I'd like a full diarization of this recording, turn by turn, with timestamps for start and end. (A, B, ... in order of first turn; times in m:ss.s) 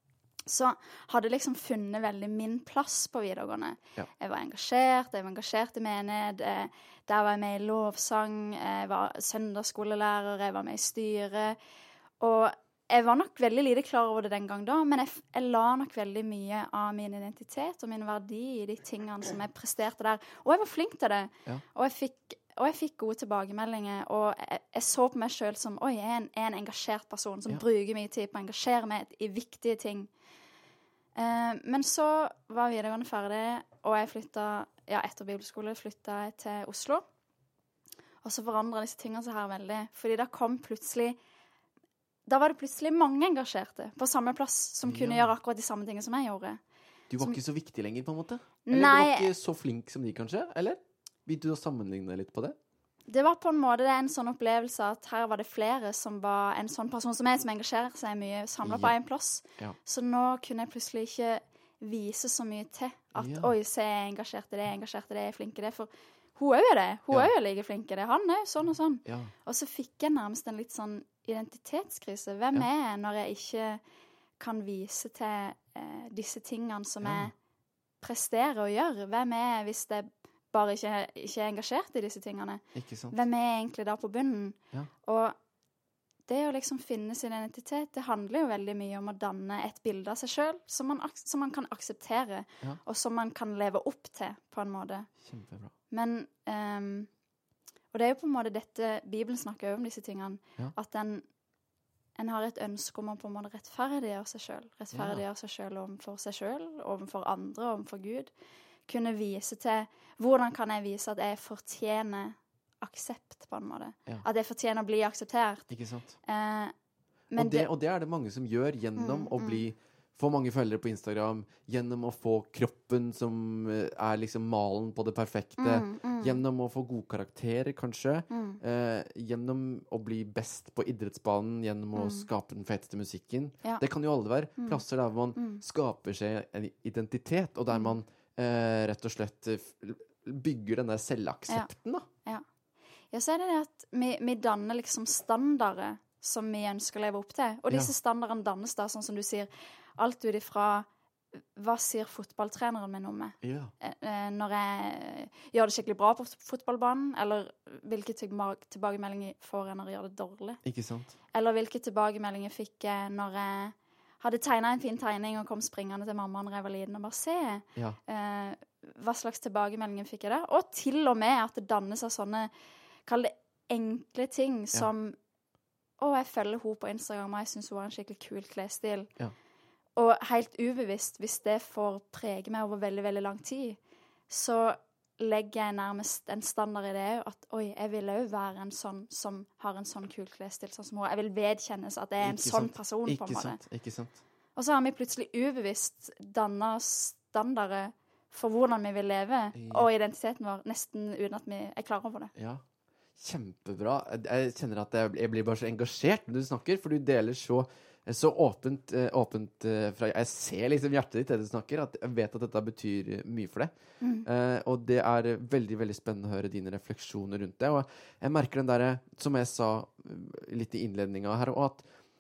0:00.5-0:11.6 A
0:12.2-0:30.1 A
0:31.2-0:37.1 A
0:38.2-0:41.2 A
0:42.3-0:46.6 A
0:44.9-0:45.3 B
0:47.1-0:52.6 B
0:48.7-0:49.3 A
0:53.1-1:13.8 A
0:58.6-0:59.0 B
1:03.2-1:03.5 B
1:09.1-1:09.3 B
1:14.4-1:17.3 A
1:17.0-1:17.3 B
1:18.0-1:25.4 A
1:22.8-1:23.1 B
1:26.3-1:35.1 A
1:35.2-1:35.7 B
1:35.9-1:37.1 A
1:37.9-1:41.3 A
1:42.2-1:48.3 A
1:44.9-1:45.2 B
1:48.9-1:55.7 A
1:55.7-1:56.2 B
1:56.2-1:56.7 A
1:57.3-1:57.7 A
1:57.4-2:22.1 B
1:59.0-1:59.6 A
2:05.6-2:06.4 A
2:08.3-2:08.6 A
2:12.0-2:12.3 A
2:15.4-2:15.6 A
2:23.1-2:30.9 A
2:31.6-2:40.6 A
2:33.4-2:33.7 B
2:40.6-2:41.1 B
2:41.3-2:52.5 A
2:53.1-2:55.2 A
2:56.0-2:59.1 A
3:00.0-3:03.8 A
3:04.3-3:13.6 A
3:12.2-3:14.2 B
3:14.6-3:22.3 A
3:19.6-3:19.9 B
3:22.4-3:22.6 B
3:23.2-3:33.7 B
3:34.0-3:34.3 A
3:34.2-3:41.9 B